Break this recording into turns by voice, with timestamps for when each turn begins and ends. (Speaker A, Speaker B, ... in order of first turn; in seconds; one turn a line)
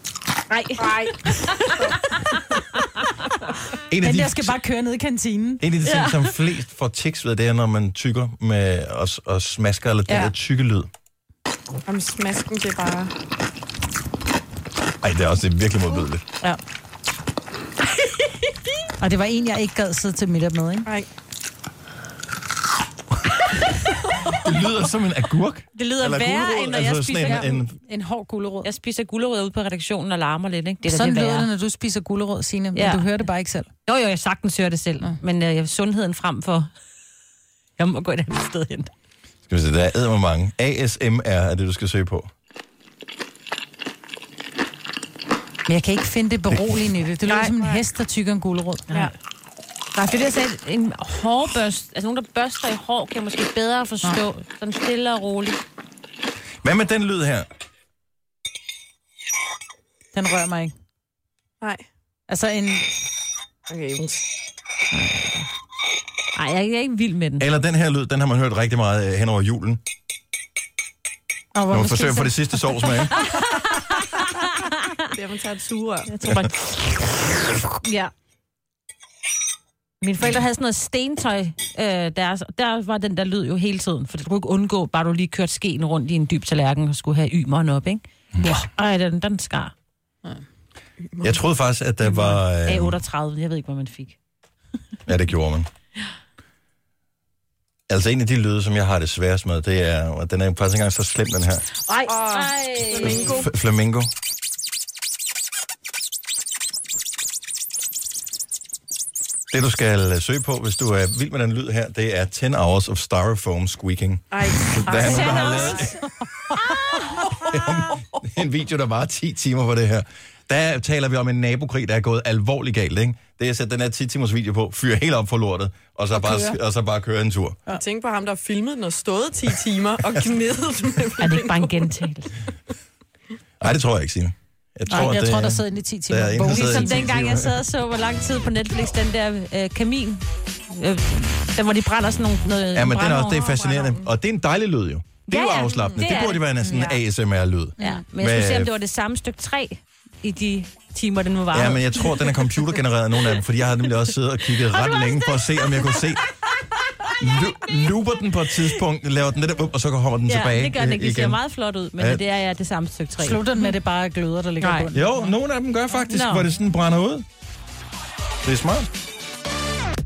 Speaker A: 0.5-2.9
Speaker B: 0.8-2.0
Speaker C: 3.9-4.6
Speaker D: 4.0-5.6
Speaker C: 5.6-10.9
Speaker A: 5.8-6.4
Speaker A: 10.1-10.3
Speaker B: 11.9-13.1
Speaker C: 15.0-16.2
Speaker D: 19.0-20.9
Speaker C: 24.2-27.8
Speaker A: 25.8-27.5
Speaker D: 27.2-28.7
Speaker A: 28.6-31.5
Speaker D: 30.9-33.7
Speaker A: 32.7-33.3
Speaker A: 33.9-36.7
Speaker A: 37.8-38.9
Speaker C: 39.5-42.3
Speaker D: 45.7-49.1
Speaker B: 47.3-47.8
Speaker A: 50.0-55.6
Speaker C: 56.6-57.5
Speaker D: 60.1-60.7
Speaker D: 62.3-63.0
Speaker B: 63.7-64.2
Speaker D: 64.9-65.5
Speaker A: 66.3-67.5
Speaker C: 67.4-69.8
Speaker D: 71.5-72.8
Speaker C: 71.7-73.2
Speaker A: 73.2-74.9
Speaker B: 75.1-76.3
Speaker A: 76.1-76.9
Speaker A: 77.6-78.1
Speaker A: 80.0-89.7
Speaker B: 91.0-91.4
Speaker C: 91.2-93.0
Speaker A: 92.0-94.2
Speaker C: 95.1-95.7
Speaker C: 97.9-101.7
Speaker A: 101.9-103.5
Speaker B: 102.1-103.5
Speaker C: 103.0-104.1
Speaker C: 109.5-116.0
Speaker B: 114.3-115.9
Speaker A: 114.9-115.9
Speaker B: 117.3-117.6
Speaker C: 117.4-127.6
Speaker D: 126.1-126.6
Speaker B: 127.7-132.1
Speaker A: 131.2-132.3
Speaker C: 133.6-137.6
Speaker D: 134.9-137.1
Speaker A: 136.4-143.5
Speaker C: 142.7-148.7
Speaker B: 143.3-144.1
Speaker A: 145.3-146.9
Speaker B: 145.9-146.3
Speaker D: 147.8-148.0
Speaker A: 147.8-152.6
Speaker C: 151.5-156.2
Speaker A: 154.6-155.9
Speaker C: 157.2-161.4
Speaker A: 160.3-163.7
Speaker C: 162.0-162.2
Speaker D: 163.2-165.3
Speaker A: 164.6-164.9
Speaker C: 164.9-167.2
Speaker A: 166.1-166.5
Speaker C: 168.4-168.9